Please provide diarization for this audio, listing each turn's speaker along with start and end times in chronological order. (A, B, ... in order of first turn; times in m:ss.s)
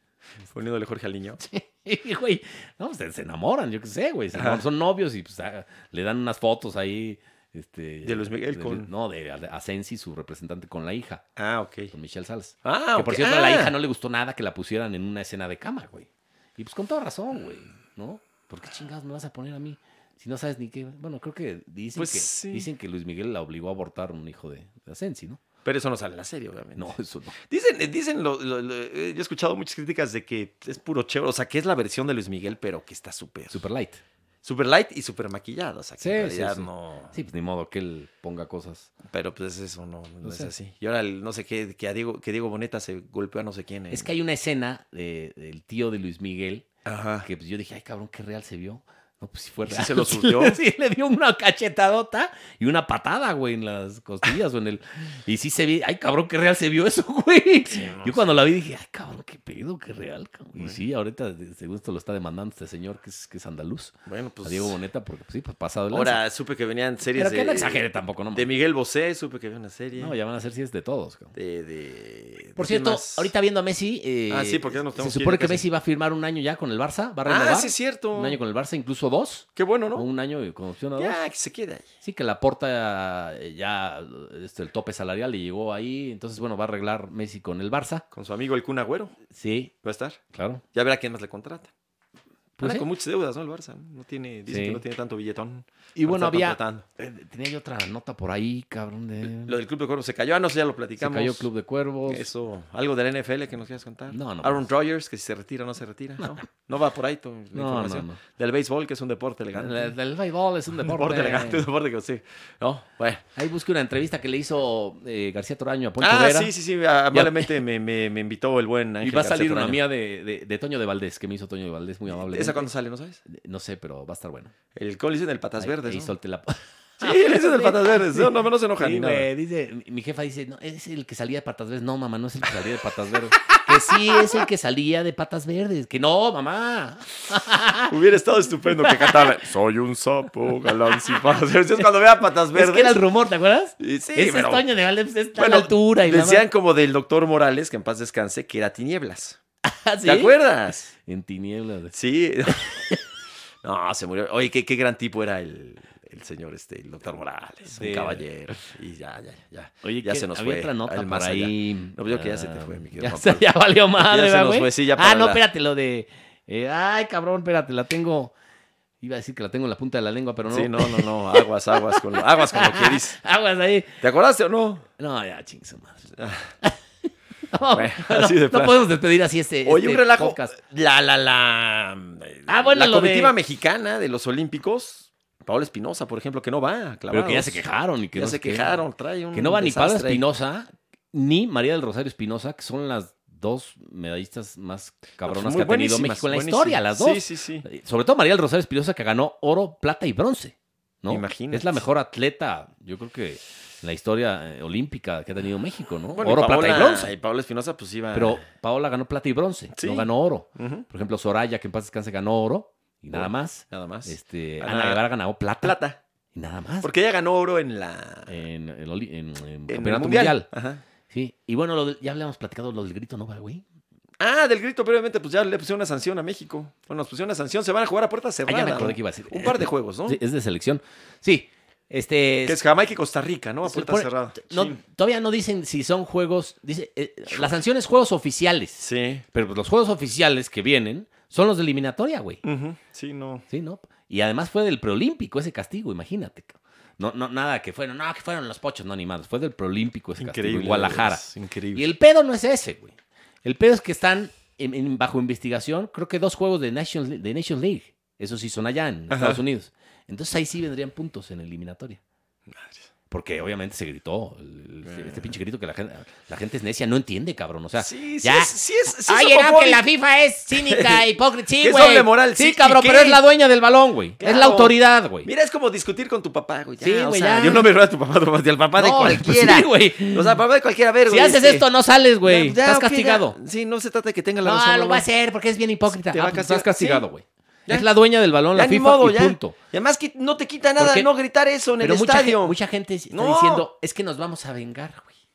0:00.4-0:01.4 A
0:01.4-0:11.2 B
0:04.3-0:04.6 A
0:08.0-0:08.9 A
0:11.4-0:11.9 A
0:11.9-0:25.4 B
0:12.6-0:13.8 A
0:22.0-0:22.7 A
0:25.6-0:33.6 A
0:26.8-0:27.4 B
0:33.5-0:34.0 B
0:34.4-0:37.2 A
0:36.0-0:38.9 B
0:39.0-0:44.1 A
0:40.2-0:40.5 B
0:43.9-0:46.7 B
0:46.8-0:47.3 A
0:47.2-1:06.2 B
0:49.6-0:50.6 A
0:57.7-0:58.4 A
1:00.6-1:00.8 A
1:04.1-1:04.8 A
1:05.9-1:10.1 A
1:07.1-1:08.5 B
1:10.0-1:11.3 B
1:11.3-1:13.3 A
1:12.6-1:21.2 B
1:14.3-1:15.6 A
1:17.3-1:18.4 A
1:19.6-1:20.1 A
1:21.0-1:21.9 A
1:22.0-1:28.0 B
1:28.1-1:29.2 A
1:29.3-1:29.7 B
1:29.8-1:30.2 A
1:30.3-1:30.6 B
1:30.7-1:31.7 A
1:32.6-1:32.9 B
1:32.6-1:36.8 A
1:34.5-1:34.8 B
1:36.0-1:39.6 B
1:39.2-1:41.5 A
1:41.0-1:42.3 B
1:42.1-1:49.9 A
1:44.1-1:44.7 B
1:47.5-1:48.2 B
1:49.6-1:51.6 B
1:50.7-1:53.2 A
1:53.4-1:56.5 B
1:56.0-1:59.8 A
1:57.1-1:57.6 B
1:59.0-2:02.7 B
2:02.1-2:03.2 A
2:03.2-2:04.5 B
2:04.8-2:06.1 A
2:05.6-2:18.0 B
2:07.0-2:09.3 A
2:13.6-2:14.5 A
2:17.9-2:23.0 A
2:18.8-2:19.3 B
2:22.5-2:26.5 B
2:23.8-2:24.6 A
2:25.4-2:29.4 A
2:29.6-2:30.3 B
2:30.0-2:30.9 A
2:31.0-2:32.0 B
2:31.9-2:32.8 A
2:32.5-2:33.0 B
2:33.6-2:45.4 A
2:37.7-2:38.2 B
2:39.8-2:48.3 B
2:49.0-2:54.0 B
2:50.5-2:53.2 A
2:54.0-2:54.9 A
2:55.0-2:56.1 B
2:56.2-2:56.5 A
2:57.5-3:00.6 B
2:57.7-2:58.9 A
2:59.6-3:10.2 A
3:02.5-3:03.3 B
3:07.1-3:08.7 B
3:09.3-3:27.1 B
3:15.2-3:17.6 A
3:21.1-3:21.8 A
3:26.2-3:28.4 A
3:28.1-3:35.8 B
3:29.8-3:30.9 A
3:33.1-3:35.0 A
3:35.6-3:36.0 A
3:36.3-3:36.9 B
3:36.8-3:38.3 A
3:38.3-3:40.5 B
3:39.7-3:40.8 A
3:41.1-3:43.6 B
3:44.2-3:50.2 A
3:48.5-3:52.6 B
3:52.5-3:54.8 A
3:53.6-4:02.4 B
3:57.3-3:57.6 A
3:58.8-3:59.2 A
4:02.4-4:03.4 A
4:03.5-4:22.0 B
4:10.2-4:11.9 A
4:19.1-4:19.4 A
4:22.5-4:22.8 A
4:23.1-4:35.3 B
4:24.9-4:25.3 A
4:27.8-4:29.9 A
4:30.6-4:33.2 A
4:34.2-4:41.7 A
4:36.8-4:37.7 B
4:38.8-4:40.4 B
4:41.1-4:43.4 B
4:42.2-4:45.1 A
4:44.4-4:49.6 B
4:45.9-4:47.1 A
4:48.5-4:52.6 A
4:50.8-4:51.1 B
4:51.8-4:55.1 B
4:53.1-4:53.7 A